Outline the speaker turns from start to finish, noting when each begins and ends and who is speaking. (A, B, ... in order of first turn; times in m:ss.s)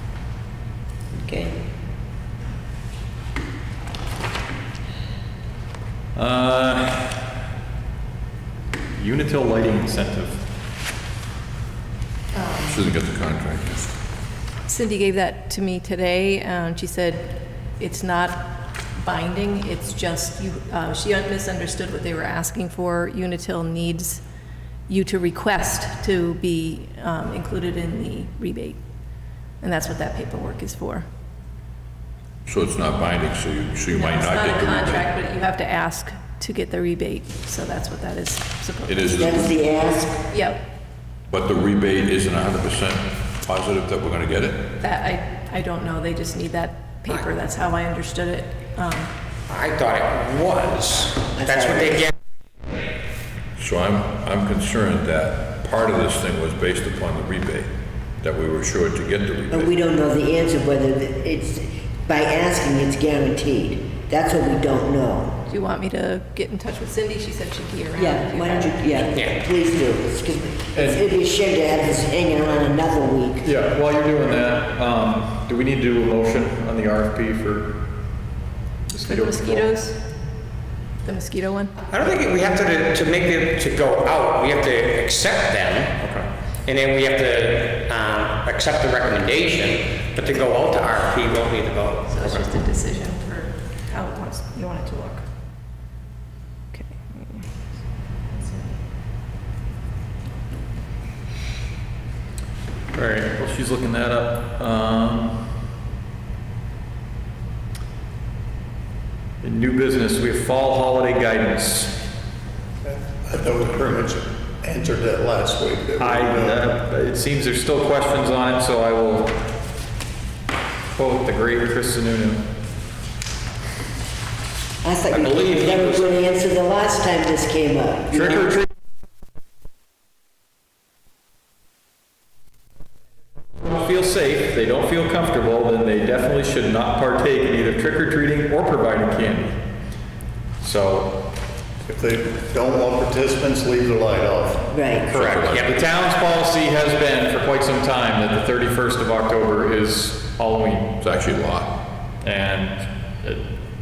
0:01.1-0:01.6 A
0:06.1-0:07.2 B
0:08.9-0:10.4 B
0:12.3-0:12.8 C
0:12.6-0:13.8 D
0:14.6-0:24.2 C
0:24.9-0:28.8 C
0:29.6-0:31.0 C
0:32.4-0:35.1 D
0:33.9-0:39.3 C
0:38.8-0:39.5 D
0:39.2-0:40.2 A
0:40.3-0:40.6 C
0:41.3-0:44.7 D
0:44.8-0:49.1 C
0:49.5-0:52.1 E
0:51.4-0:52.1 A
0:53.6-0:57.7 D
0:58.2-0:59.7 D
0:59.5-1:05.4 A
1:05.5-1:09.0 C
1:07.9-1:13.5 A
1:10.7-1:11.0 B
1:13.4-1:17.8 B
1:18.9-1:19.7 B
1:19.0-1:20.0 C
1:21.0-1:21.8 C
1:21.9-1:26.0 E
1:26.0-1:26.3 B
1:26.6-1:32.3 E
1:32.1-1:35.2 C
1:38.3-1:38.8 C
1:42.9-1:45.5 B
1:49.4-1:52.0 B
1:52.8-1:56.7 F
1:56.0-1:59.4 B
2:00.9-2:02.4 B
2:04.8-2:08.6 A
2:05.1-2:06.2 E
2:13.6-2:19.6 B
2:20.6-2:21.2 B
2:21.8-2:24.7 F
2:24.7-2:25.1 A
2:25.1-2:25.6 D
2:25.1-2:31.0 B
2:25.5-2:25.8 E
2:31.0-2:31.7 D
2:32.2-2:33.4 B